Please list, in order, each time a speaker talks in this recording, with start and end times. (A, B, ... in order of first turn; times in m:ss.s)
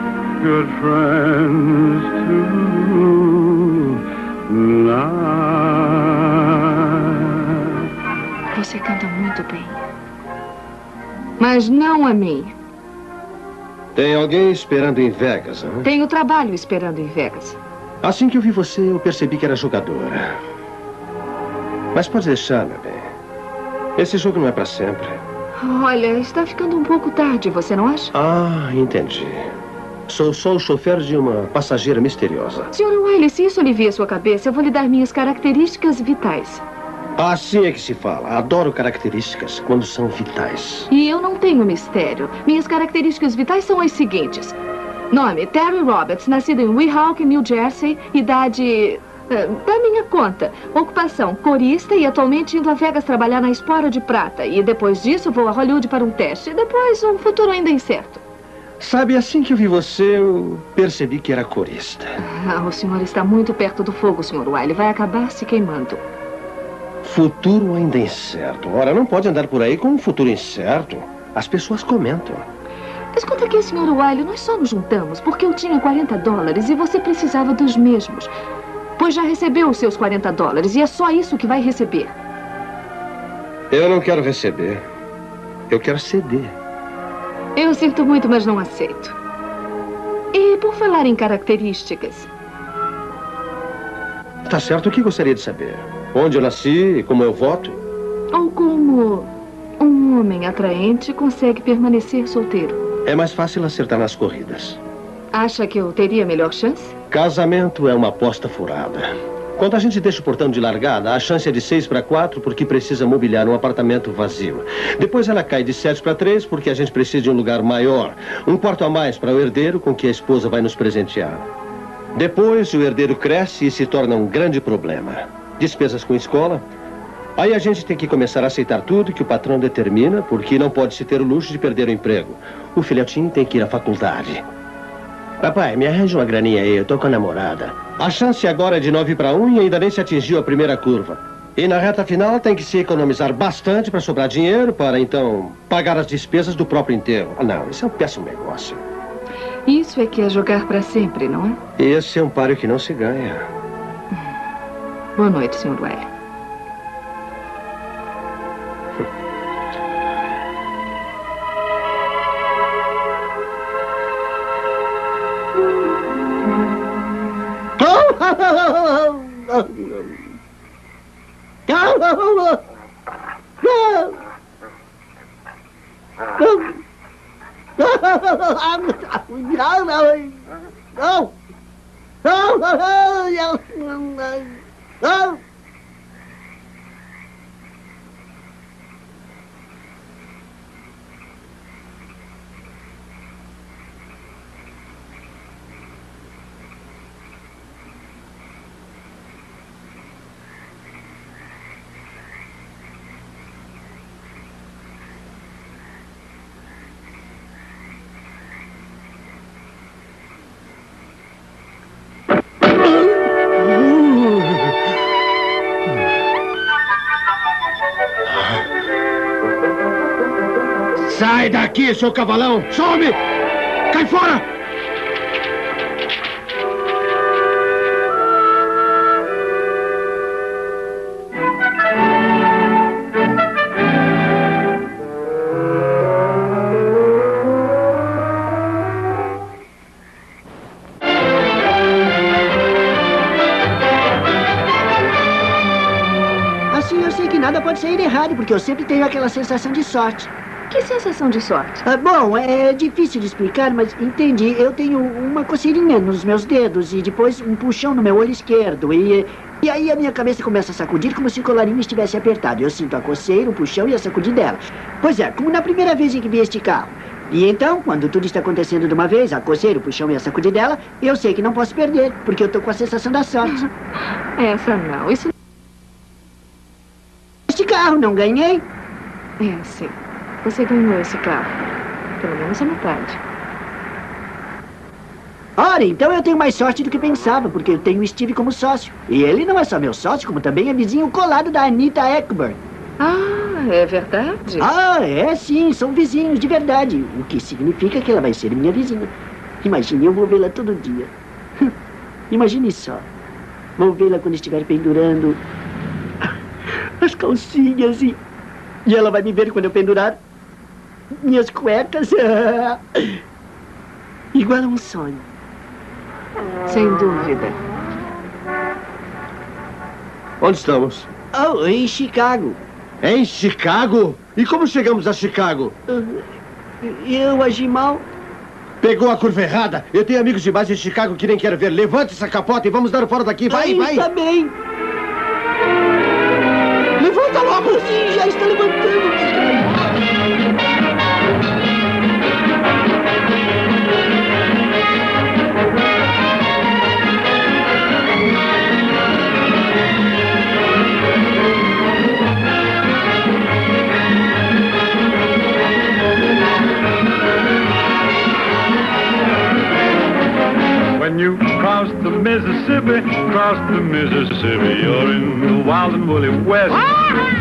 0:00.4-0:07.2 A
0:08.5-0:09.8 B
0:11.4-0:12.6 B
0:14.0-0:15.9 C
0:15.8-0:17.6 B
0:18.0-0:20.4 C
0:21.9-0:23.1 C
0:24.0-0:25.2 C
0:25.6-0:28.1 B
0:28.1-0:29.5 C
0:30.1-0:32.7 C
0:32.7-0:36.6 B
0:37.2-0:40.9 C
0:40.9-0:44.6 B
0:45.1-0:58.2 B
0:58.8-1:02.2 C
1:02.2-1:06.0 B
1:07.0-1:12.5 C
1:13.1-1:18.3 B
1:19.0-1:22.1 B
1:23.7-1:24.9 C
1:25.7-1:26.6 C
1:27.6-1:29.2 B
1:30.3-1:32.3 B
1:34.5-1:37.8 C
1:38.3-1:42.8 B
1:43.0-1:44.8 C
1:45.3-1:47.0 B
1:47.1-2:01.5 C
2:02.1-2:06.7 C
2:07.4-2:14.5 C
2:15.4-2:28.8 C
2:29.7-2:31.6 B
2:31.8-2:33.5 C
2:35.2-2:36.1 B
2:47.8-2:50.1 D
2:51.7-2:52.6 D
2:53.6-2:54.2 D
2:56.4-2:56.8 D
2:57.8-3:00.4 D
3:01.0-3:01.3 D
3:02.2-3:05.4 D
3:33.7-3:34.7 C
3:38.3-3:38.7 C
3:41.0-3:43.2 C
3:43.9-3:44.5 C
4:06.7-4:10.3 D
4:10.7-4:11.8 B
4:11.8-4:33.6 D
4:34.4-4:35.3 B
4:37.5-4:38.6 D
4:39.4-4:41.6 B
4:42.2-4:43.2 B
4:45.6-4:52.6 D
4:53.0-4:54.7 B
4:54.6-5:01.7 D
5:02.3-5:03.1 D
5:03.8-5:05.4 D
5:07.0-5:08.2 D
5:08.9-5:10.2 D
5:11.1-5:13.2 D
5:14.3-5:15.2 D
5:16.7-5:17.6 B
5:20.4-5:21.1 C
5:21.3-5:22.6 D
5:23.0-5:25.7 C
5:25.9-5:26.2 D
5:26.8-5:28.0 D
5:28.8-5:34.1 C
5:33.5-5:34.5 D
5:37.0-5:39.9 D
6:01.0-6:06.8 A